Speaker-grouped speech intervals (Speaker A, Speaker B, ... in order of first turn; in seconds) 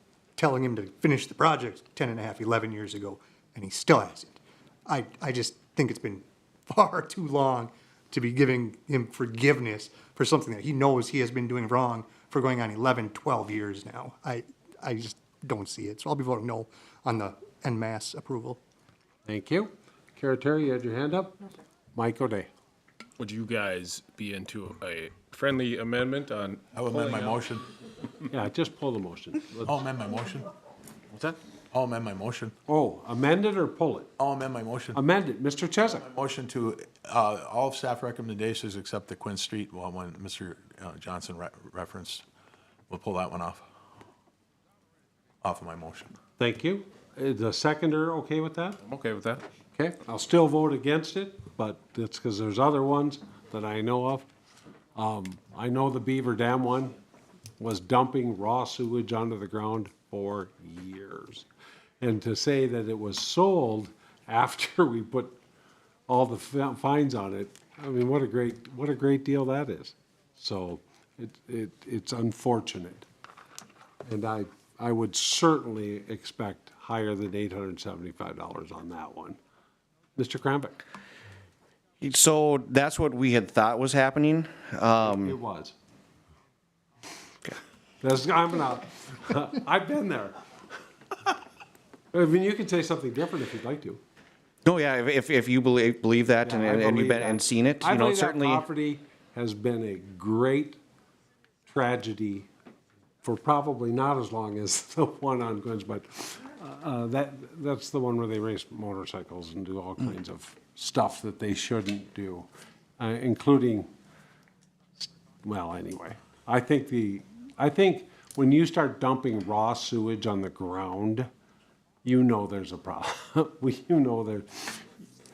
Speaker A: 0.4-18.6
Speaker B: 19.2-21.4, 21.9-22.5, 28.3-29.8, 32.7-34.1, 34.9-36.0, 46.4-48.8, 49.7-54.3, 54.9-56.9, 57.6-61.5, 62.0-65.3, 66.1-73.0, 74.0-79.4, 80.2-80.8, 85.0-85.7, 88.0-90.4, 92.1-94.0, 96.4-100.8, 101.7-102.5, 103.2-112.5, 113.0-113.9, 115.0-121.3, 122.0-124.8
Speaker C: 23.2-27.4, 31.1-31.4, 48.8-49.4
Speaker D: 26.7-27.6, 29.6-30.5, 31.7-32.5, 34.2-35.0, 35.9-42.2, 42.9-43.6, 45.4-46.1
Speaker E: 82.0-85.4, 94.6-98.6